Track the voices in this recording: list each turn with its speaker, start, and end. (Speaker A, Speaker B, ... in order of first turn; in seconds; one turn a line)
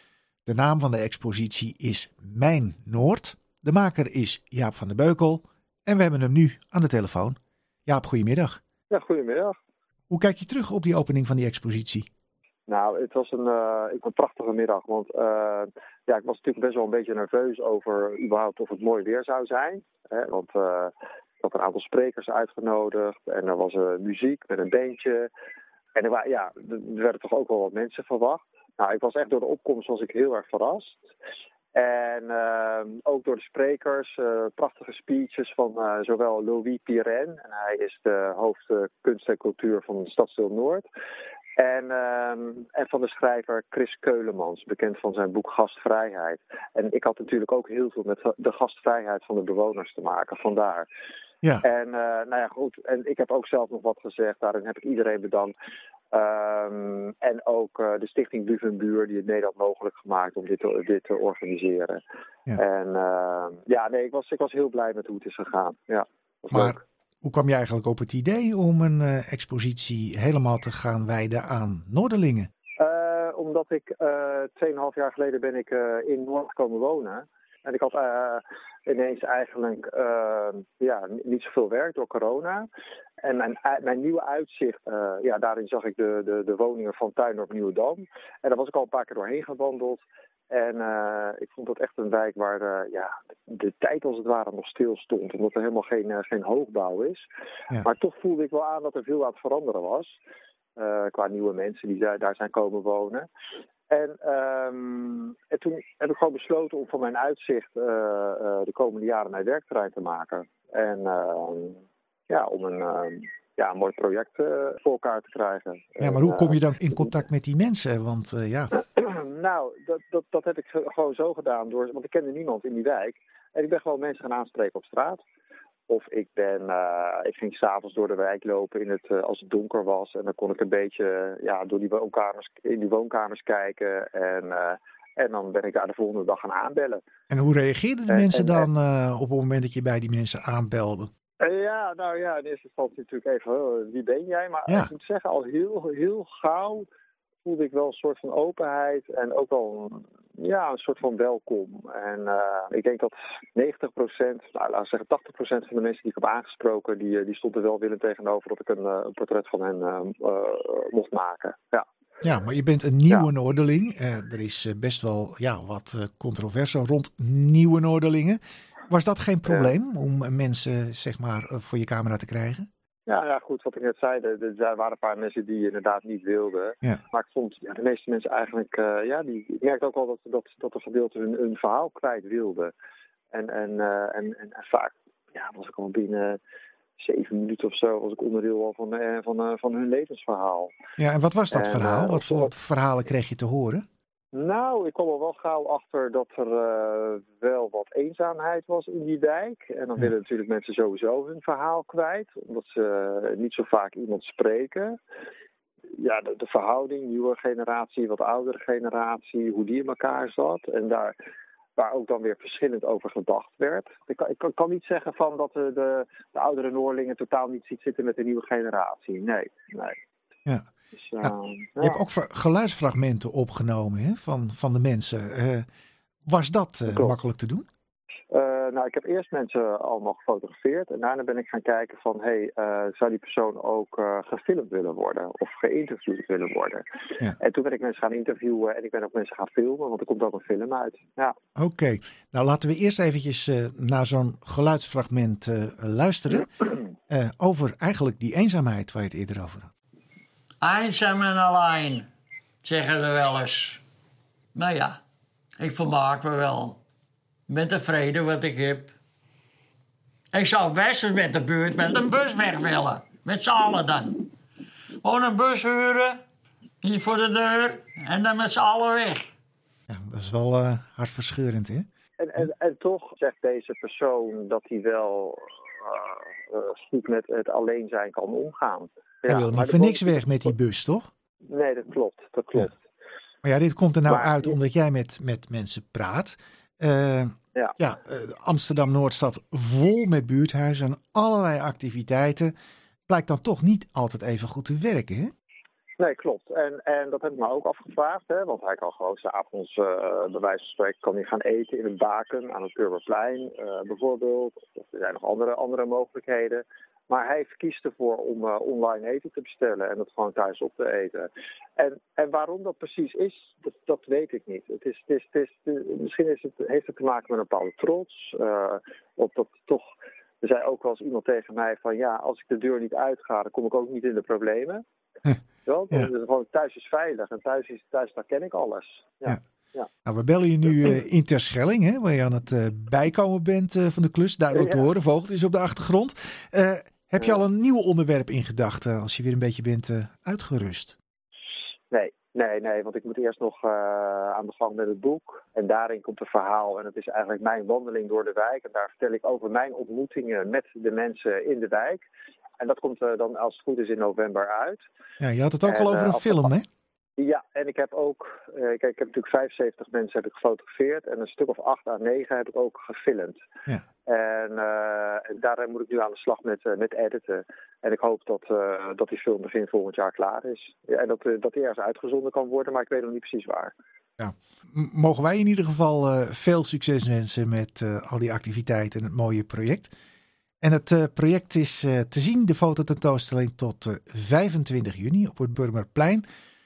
Speaker A: 0.5-8.6
Speaker B: 8.9-9.6
Speaker A: 10.1-12.1
Speaker B: 12.7-25.3
Speaker B: 26.0-31.1
Speaker B: 31.7-40.9
Speaker B: 41.6-50.9
Speaker B: 51.6-55.5
Speaker B: 56.1-62.0
Speaker B: 62.6-66.8
Speaker A: 66.5-72.5
Speaker B: 72.8-82.7
Speaker B: 83.2-97.2
Speaker B: 97.8-100.2
Speaker B: 100.8-103.3
Speaker B: 103.9-116.6
Speaker A: 116.0-118.8
Speaker B: 119.0-125.2
Speaker B: 125.9-137.0
Speaker A: 137.3-141.1
Speaker B: 138.1-138.7
Speaker B: 141.4-146.9
Speaker B: 147.4-161.9
Speaker A: 162.2-172.7
Speaker B: 169.5-169.7
Speaker B: 173.1-182.7
Speaker B: 183.3-186.4
Speaker B: 187.0-190.7
Speaker A: 191.0-193.8
Speaker B: 191.5-192.5
Speaker B: 194.3-205.0
Speaker B: 205.9-211.2
Speaker B: 211.8-220.0
Speaker B: 221.0-222.0
Speaker A: 221.2-225.7
Speaker A: 226.3-227.7
Speaker B: 226.9-227.2
Speaker B: 228.3-236.8
Speaker B: 237.4-241.4
Speaker A: 241.6-249.7
Speaker C: 250.6-252.1
Speaker C: 252.6-253.8
Speaker C: 254.6-255.0
Speaker C: 255.6-256.8
Speaker C: 257.5-258.9
Speaker C: 260.3-264.2
Speaker C: 265.0-266.2
Speaker C: 266.8-269.3
Speaker A: 269.9-271.9
Speaker B: 272.2-280.5
Speaker A: 279.3-281.1
Speaker B: 281.5-282.8
Speaker A: 283.4-292.5
Speaker B: 284.1-284.5
Speaker A: 293.1-295.3
Speaker B: 296.0-324.8
Speaker B: 325.6-329.9
Speaker A: 330.1-341.0
Speaker B: 334.5-334.9
Speaker B: 341.9-352.1
Speaker B: 352.6-354.8
Speaker A: 355.2-356.7
Speaker B: 355.6-356.5
Speaker B: 357.2-363.4
Speaker B: 364.1-373.7
Speaker A: 374.2-379.9
Speaker A: 380.6-386.2